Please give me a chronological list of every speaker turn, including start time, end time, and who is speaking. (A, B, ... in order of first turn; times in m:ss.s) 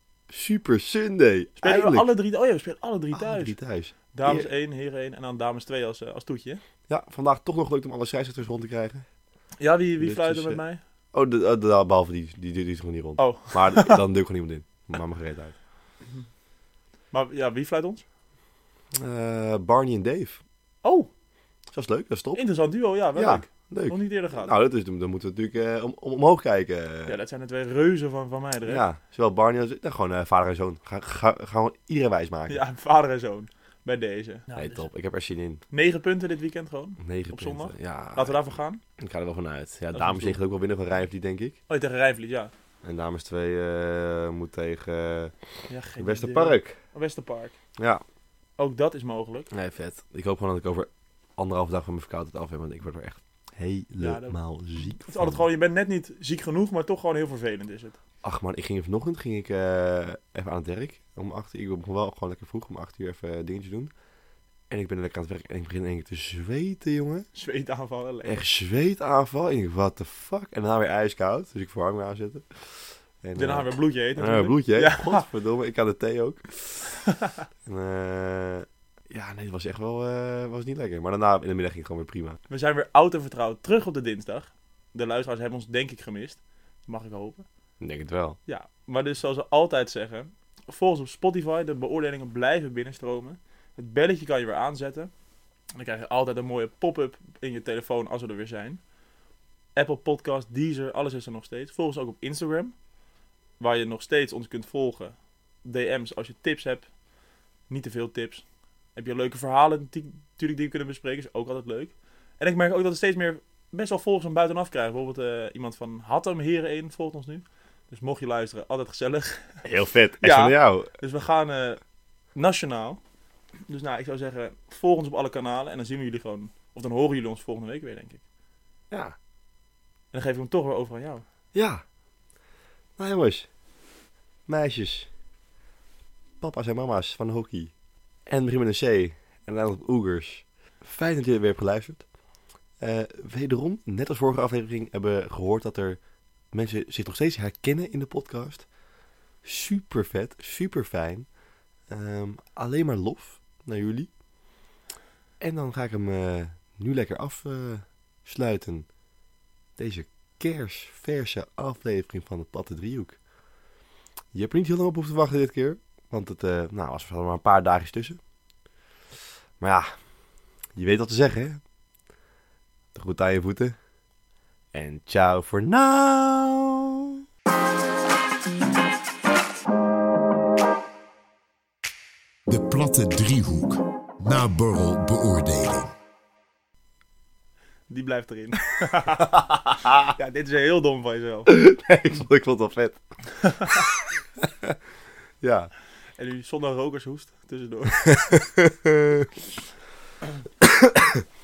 0:00.3-0:02.1 A
0:01.6-0:03.6 B
0:03.1-0:04.5 A
0:04.1-0:06.6 B
0:06.9-0:09.1 A
0:09.6-0:10.8 B
0:10.0-0:10.6 A
0:11.1-0:15.6 A
0:13.2-0:14.0 B
0:17.1-0:18.0 B
0:18.9-0:20.4 A
0:20.8-0:21.1 B
0:21.7-0:22.4 A
0:22.4-0:24.5 B
0:23.2-0:27.2 A
0:27.1-0:28.8 B
0:28.7-0:32.6 A
0:32.5-0:34.8 B
0:34.5-0:35.6 A
0:35.7-0:38.8 B
0:37.0-0:38.4 A
0:39.0-0:41.6 A
0:39.9-0:40.4 B
0:41.7-0:42.5 B
0:42.8-0:45.3 A
0:45.7-0:47.6 B
0:46.0-0:46.8 A
0:47.8-0:48.0 A
0:48.6-0:49.5 B
0:49.5-0:55.4 A
0:54.0-0:54.4 B
0:55.0-0:58.0 B
0:58.2-1:03.9 A
1:04.7-1:07.3 A
1:07.4-1:08.4 B
1:08.2-1:17.0 A
1:13.4-1:15.3 B
1:17.1-1:17.4 B
1:17.6-1:22.4 A
1:22.5-1:27.5 B
1:27.8-1:28.4 A
1:28.5-1:35.1 B
1:35.8-1:38.8 B
1:39.8-1:42.8 B
1:43.6-1:46.9 B
1:47.7-1:59.6 B
1:59.6-2:00.9 A
2:00.2-2:01.8 B
2:02.4-2:03.0 B
2:03.7-2:08.2 B
2:08.9-2:09.2 A
2:10.1-2:11.2 B
2:11.5-2:11.8 A
2:13.0-2:13.5 A
2:14.5-2:15.1 A
2:16.4-2:17.7 A
2:18.3-2:22.0 A
2:22.8-2:26.0 A
2:26.5-2:28.7 A
2:29.4-2:31.3 A
2:31.9-2:34.1 A
2:35.4-2:38.9 A
2:39.8-2:43.2 A
2:44.3-2:48.2 A
2:49.6-2:50.0 A
2:50.8-2:51.6 A
2:52.9-2:53.8 A
2:54.7-2:57.2 A
3:02.5-3:05.9 C
3:07.9-3:09.3 B
3:09.4-3:10.1 A
3:10.2-3:11.5 B
3:11.5-3:13.8 A
3:13.4-3:13.8 B
3:14.4-3:14.8 A
3:15.4-3:15.7 A
3:16.2-3:18.2 B
3:18.1-3:19.3 A